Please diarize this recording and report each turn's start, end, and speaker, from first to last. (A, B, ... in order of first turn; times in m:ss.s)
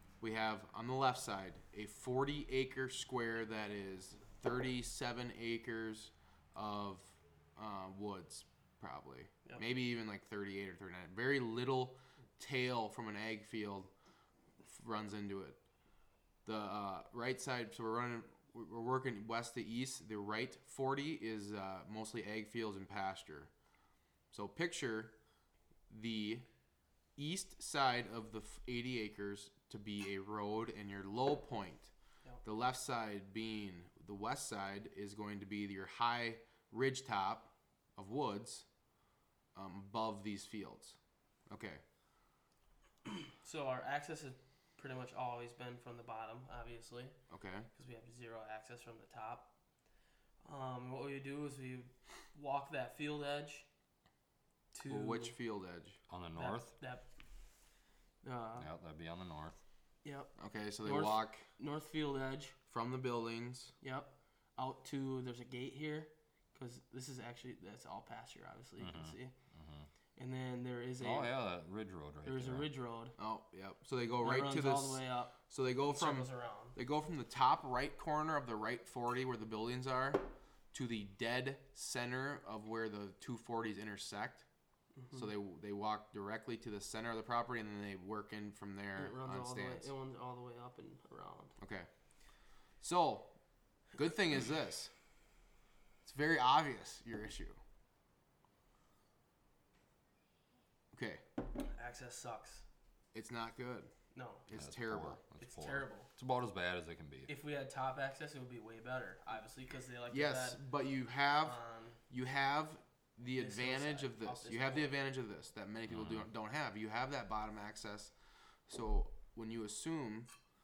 0:00.2-0:13.9 A
0:14.6-0:15.6 A
0:16.4-0:23.5 A
0:24.3-0:25.2 A
0:25.9-0:26.4 A
0:27.2-0:31.9 A
0:32.4-0:38.6 A
0:39.5-0:41.0 A
0:41.5-0:41.8 A
0:43.0-0:47.2 B
0:47.3-0:47.7 A
0:47.7-0:49.5 B
0:50.4-0:53.7 B
0:54.7-0:55.4 B
0:54.8-0:56.0 A
0:56.1-0:56.7 C
0:56.3-0:57.0 B
0:58.2-0:58.7 B
0:58.6-0:59.6 C
1:00.0-1:00.3 B
1:00.4-1:01.4 A
1:00.8-1:02.6 B
1:02.7-1:03.7 A
1:03.8-1:09.3 B
1:08.8-1:09.9 C
1:10.2-1:11.3 B
1:11.0-1:12.7 C
1:12.2-1:13.1 B
1:13.2-1:24.4 A
1:14.2-1:15.4 B
1:15.9-1:16.8 B
1:24.9-1:25.3 B
1:25.1-1:29.9 A
1:29.0-1:31.5 B
1:31.6-1:31.9 A
1:32.8-1:33.4 A
1:33.9-1:34.9 A
1:36.0-1:37.6 A
1:40.9-1:41.2 A
1:41.6-1:42.6 B
1:43.1-1:43.9 A
1:44.1-1:44.4 B
1:44.5-1:45.2 A
1:44.5-1:47.3 C
1:45.4-1:46.1 B
1:47.3-1:50.6 B
1:50.1-1:51.6 A
1:51.4-1:52.0 B
1:52.1-1:58.1 A
1:53.4-1:55.0 B
1:55.9-1:56.3 C
1:58.7-2:00.3 A